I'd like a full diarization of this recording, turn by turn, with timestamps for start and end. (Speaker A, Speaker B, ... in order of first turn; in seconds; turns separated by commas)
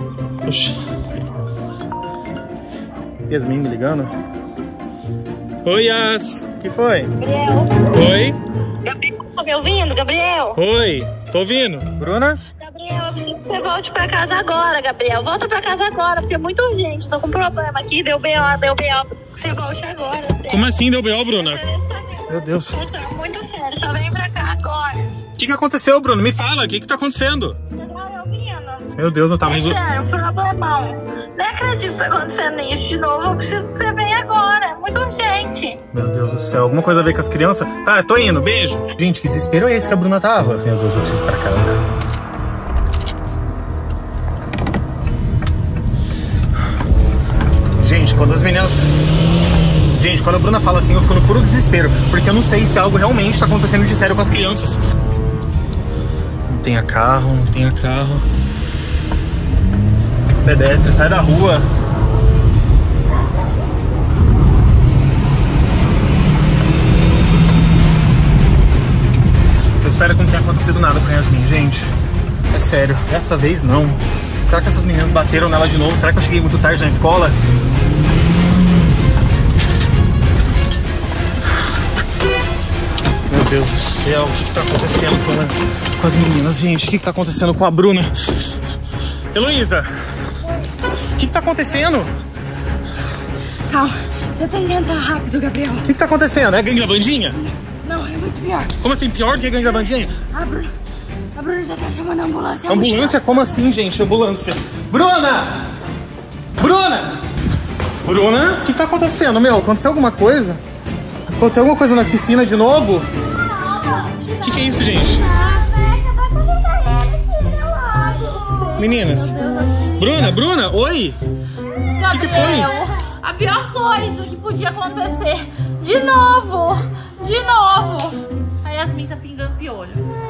Speaker A: 0.5-0.8, Speaker A: 3.3-4.1, Speaker A: 5.6-7.1, Speaker B: 7.2-7.9, Speaker A: 7.9-8.4, Speaker B: 8.8-10.6, Speaker A: 10.6-12.4, Speaker B: 12.5-20.7, Speaker A: 20.5-21.6, Speaker B: 21.2-25.1, Speaker A: 22.3-22.8, Speaker A: 25.4-27.6, Speaker B: 27.8-28.9, Speaker A: 29.0-29.8, Speaker B: 29.4-35.8, Speaker A: 35.9-41.8, Speaker A: 47.8-48.9, Speaker A: 49.9-54.8, Speaker A: 56.5-58.3, Speaker A: 60.4-61.7, Speaker A: 69.8-71.9, Speaker A: 72.5-77.4, Speaker A: 83.3-88.5, Speaker A: 89.3-89.9, Speaker A: 91.2-92.1, Speaker C: 93.7-95.9, Speaker A: 95.8-97.4, Speaker C: 97.8-98.7, Speaker A: 98.8-100.2, Speaker C: 100.3-100.7, Speaker C: 101.3-103.5, Speaker A: 102.7-105.7, Speaker A: 106.6-107.2, Speaker A: 108.0-110.6, Speaker A: 111.3-113.1, Speaker D: 113.3-120.4, Speaker A: 114.4-115.2, Speaker A: 118.8-119.3, Speaker A: 120.0-121.2, Speaker D: 122.0-130.1, Speaker A: 122.1-122.7